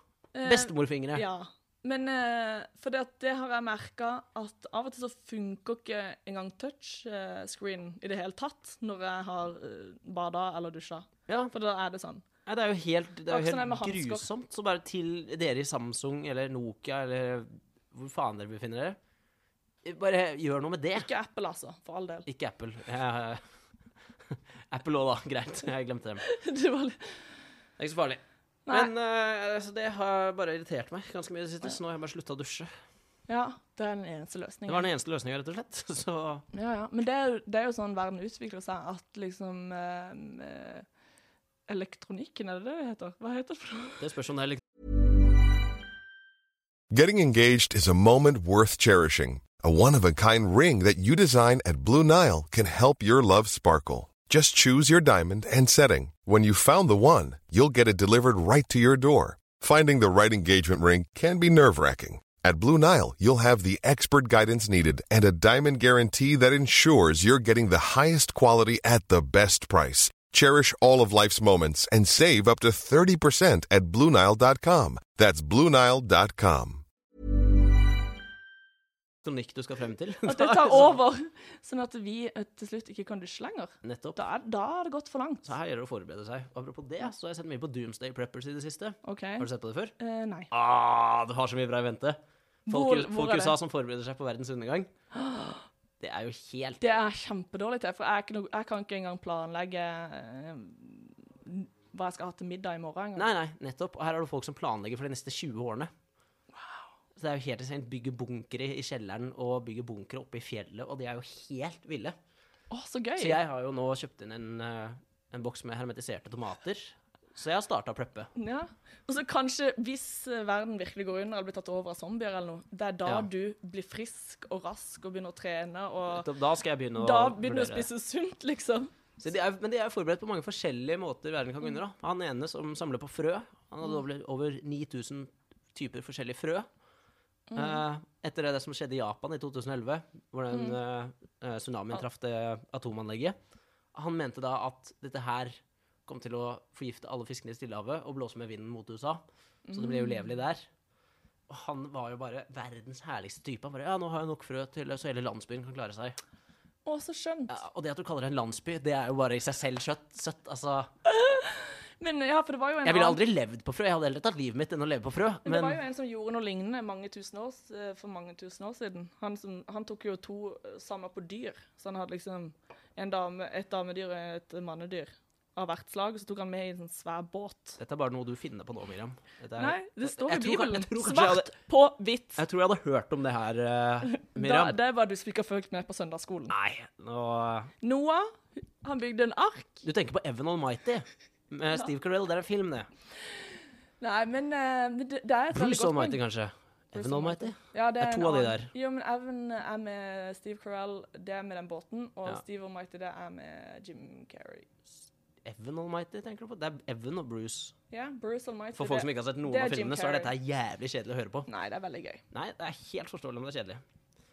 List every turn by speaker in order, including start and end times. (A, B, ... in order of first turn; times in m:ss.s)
0:00.3-0:12.2 A
0:00.4-0:01.2 B
0:11.3-0:11.5 B
0:12.5-0:19.0 B
0:13.3-0:14.3 A
0:19.8-0:21.1 B
0:21.0-0:22.3 A
0:22.3-0:23.4 B
0:24.7-0:26.2 B
0:26.2-0:27.2 A
0:27.8-0:32.7 B
0:28.7-0:28.9 A
0:33.3-0:34.9 A
0:34.7-0:36.5 B
0:36.5-0:40.9 A
0:41.7-0:44.0 A
0:44.0-0:44.6 B
0:46.9-1:16.8 C
1:19.2-1:21.0 B
1:20.3-1:25.5 A
1:23.8-1:24.2 B
1:25.4-1:30.0 B
1:29.0-1:29.5 A
1:30.0-1:30.5 A
1:30.5-1:34.9 B
1:32.7-1:33.6 A
1:35.1-1:35.7 A
1:36.0-1:37.0 B
1:36.8-1:43.3 A
1:43.2-1:45.9 B
1:46.6-1:46.8 A
1:47.2-1:52.2 B
1:52.7-1:53.4 A
1:53.2-1:58.3 B
1:58.4-2:06.3 A
2:06.1-2:07.9 B
2:07.0-2:08.9 A
2:09.2-2:16.7 B
2:17.5-2:17.8 A
2:17.6-2:23.4 B
2:23.9-2:29.2 B
2:29.7-2:30.4 A
2:29.7-2:30.7 B
2:31.5-2:36.2 B
2:36.8-2:37.6 A
2:37.5-2:40.9 B
2:41.1-2:43.2 A
2:42.8-2:45.8 B
2:45.4-2:57.8 A
2:57.8-3:01.5 B
2:59.6-3:02.4 A
3:02.4-3:04.8 B
3:04.0-3:06.5 A
3:06.5-3:07.7 B
3:07.8-3:09.8 A
3:09.8-3:12.9 B
3:13.3-3:16.2 A
3:15.5-3:18.7 B
3:16.9-3:24.7 A
3:25.4-3:27.7 B
3:27.9-3:30.3 A
3:28.8-3:31.5 B
3:31.5-3:32.2 A
3:32.3-3:33.8 B